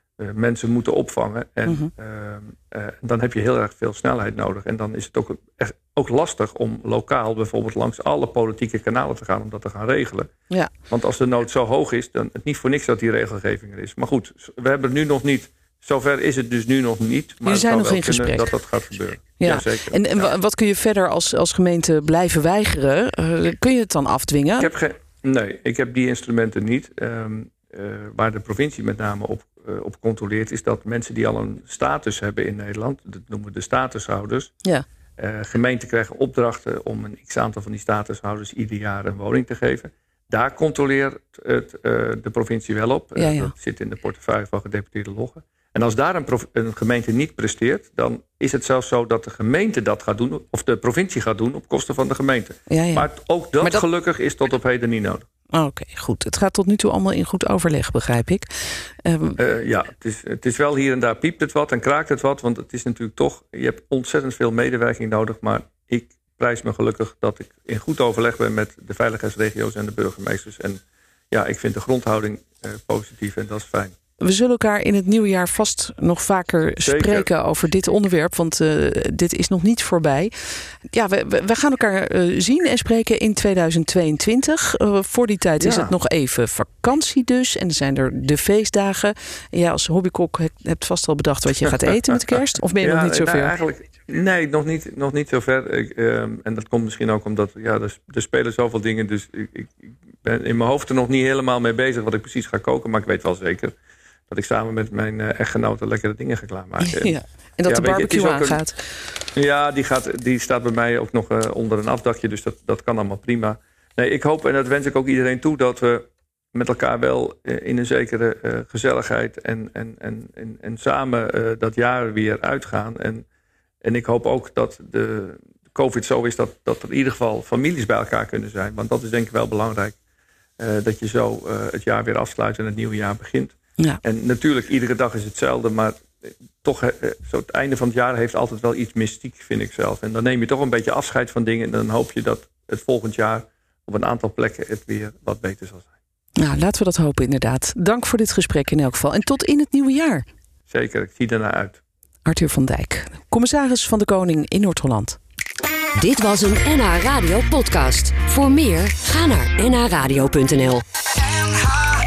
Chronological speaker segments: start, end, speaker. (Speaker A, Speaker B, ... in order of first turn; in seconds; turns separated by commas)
Speaker A: 0.2-10.3, Speaker B: 1.6-1.9, Speaker A: 10.9-20.3, Speaker B: 17.4-18.5, Speaker B: 19.4-24.7, Speaker A: 24.6-34.5, Speaker A: 35.2-55.2, Speaker B: 43.1-43.5, Speaker B: 52.7-53.1, Speaker B: 55.5-59.4, Speaker A: 59.4-73.9, Speaker B: 74.2-93.5, Speaker A: 76.8-77.3, Speaker A: 85.6-86.0, Speaker A: 91.7-103.7, Speaker A: 104.3-108.6, Speaker B: 106.8-108.8, Speaker A: 109.3-123.2, Speaker A: 123.8-129.9, Speaker A: 130.6-145.9, Speaker B: 146.4-150.2, Speaker A: 150.7-151.8, Speaker B: 152.2-155.2, Speaker C: 156.0-160.8